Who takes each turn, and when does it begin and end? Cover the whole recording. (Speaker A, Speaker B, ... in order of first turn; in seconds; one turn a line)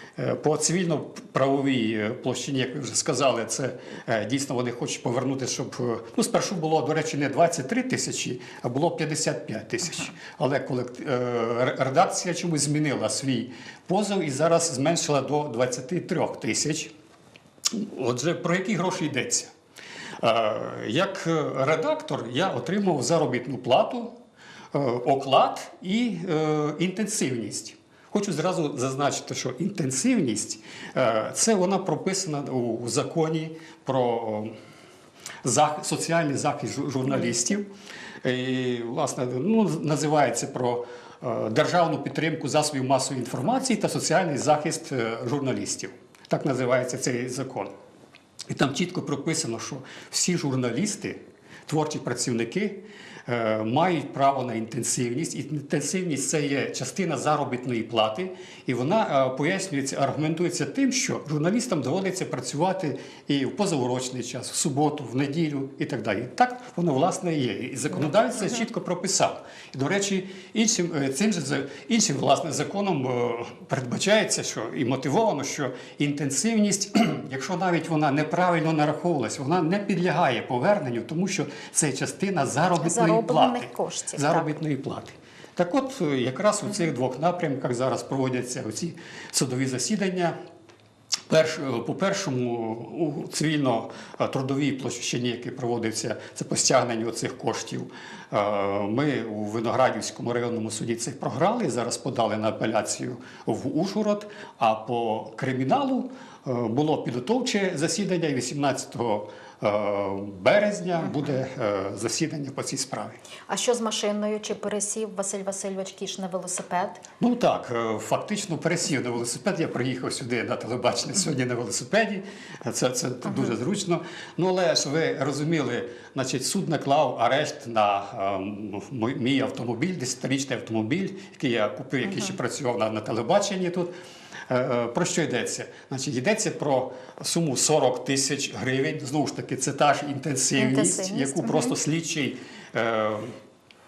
Speaker A: 0.2-16.9
Speaker A: 17.7-19.5
Speaker A: 20.2-24.1
Speaker A: 24.7-34.5
Speaker A: 35.4-37.7
Speaker A: 38.2-47.7
Speaker A: 48.5-90.4
Speaker B: 82.8-84.5
Speaker A: 91.3-113.2
Speaker B: 113.5-117.0
Speaker A: 117.2-133.9
Speaker B: 132.1-132.3
Speaker A: 134.5-143.3
Speaker B: 140.6-141.8